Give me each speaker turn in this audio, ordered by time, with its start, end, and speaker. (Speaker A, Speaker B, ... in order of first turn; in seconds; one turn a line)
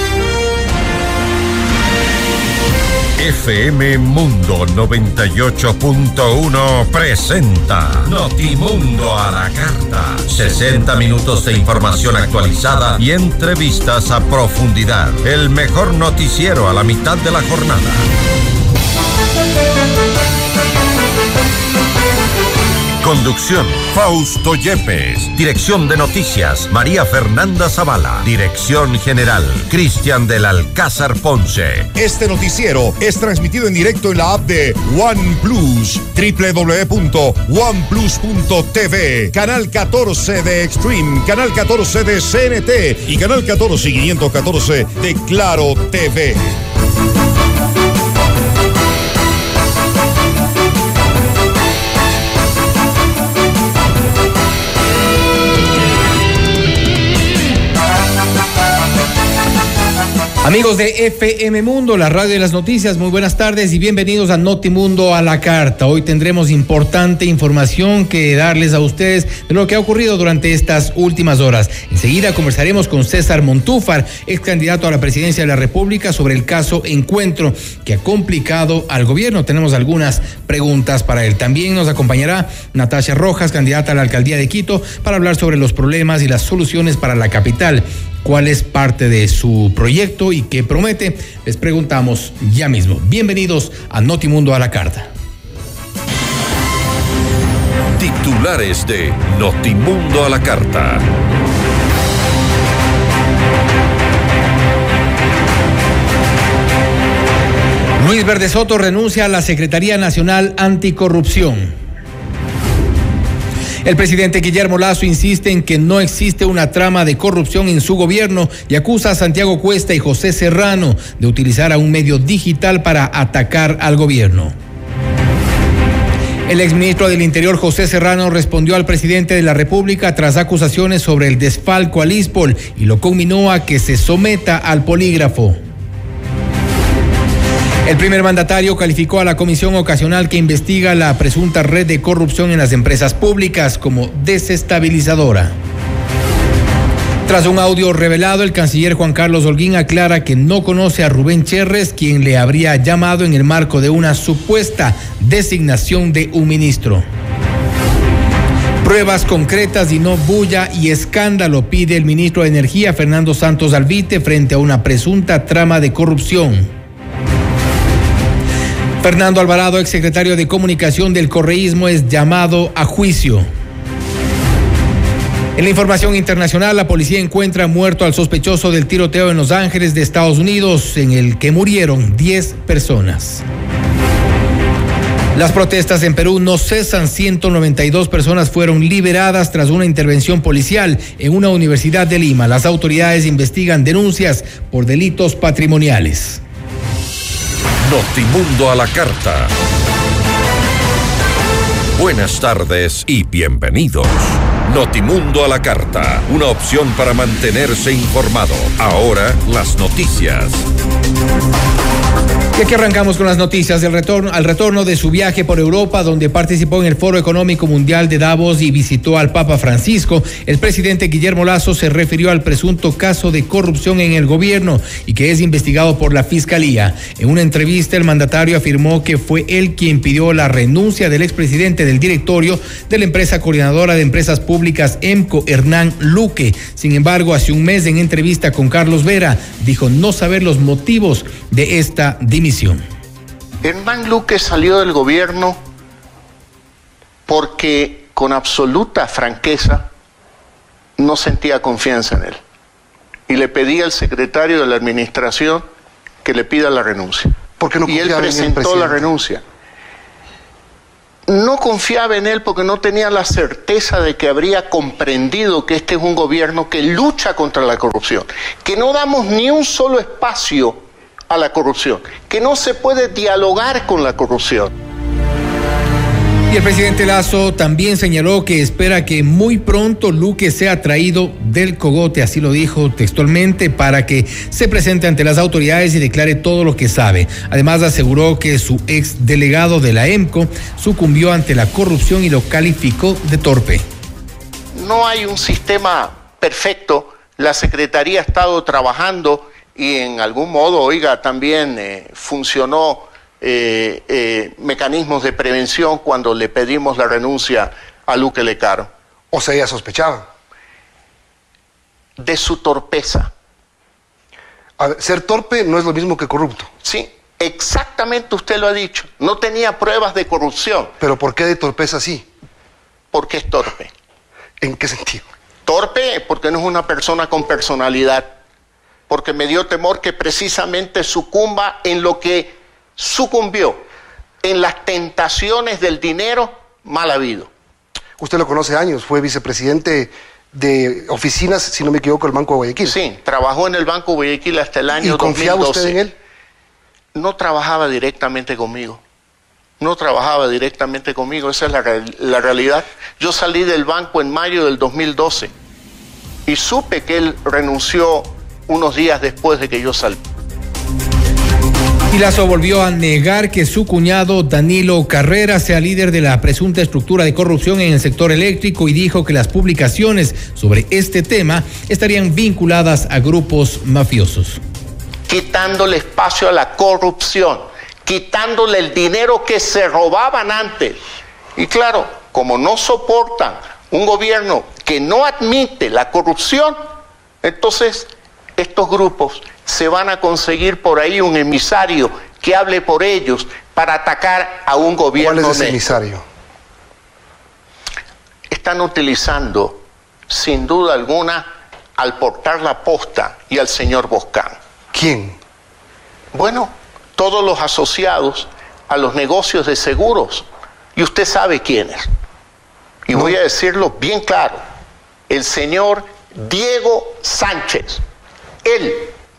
Speaker A: 3.2-18.0
Speaker A: 23.0-31.9
Speaker B: 31.9-46.5
Speaker C: 60.4-95.1
Speaker A: 98.0-101.0
Speaker C: 108.0-111.7
Speaker C: 113.8-124.5
Speaker C: 126.5-135.6
Speaker C: 137.8-145.6
Speaker C: 147.2-157.0
Speaker C: 158.8-166.7
Speaker C: 169.0-173.5
Speaker C: 175.6-183.4
Speaker C: 185.3-196.4
Speaker A: 197.8-199.5
Speaker A: 202.0-210.6
Speaker C: 212.5-242.8
Speaker D: 243.6-245.6
Speaker D: 247.3-249.9
Speaker D: 251.0-252.4
Speaker D: 253.3-255.7
Speaker D: 256.2-259.4
Speaker E: 257.6-259.1
Speaker D: 261.3-274.7
Speaker C: 276.5-293.9
Speaker D: 294.7-308.9
Speaker E: 309.3-310.3
Speaker D: 312.2-313.3
Speaker E: 314.8-316.7
Speaker D: 316.8-320.9
Speaker E: 321.0-322.3
Speaker D: 323.1-323.9
Speaker E: 324.6-325.2
Speaker D: 325.6-328.4
Speaker D: 329.1-333.8
Speaker D: 334.4-337.5
Speaker E: 338.2-342.9
Speaker D: 342.9-346.0
Speaker E: 345.0-346.1
Speaker D: 347.1-349.0
Speaker D: 349.8-355.5
Speaker D: 356.5-360.2
Speaker C: 362.1-374.6
Speaker D: 375.3-381.0
Speaker D: 381.6-386.8
Speaker D: 387.4-396.0
Speaker E: 395.1-396.2
Speaker D: 398.5-404.6
Speaker E: 404.9-405.4
Speaker D: 406.3-412.1
Speaker D: 413.1-414.6
Speaker D: 415.3-418.0
Speaker D: 418.6-419.1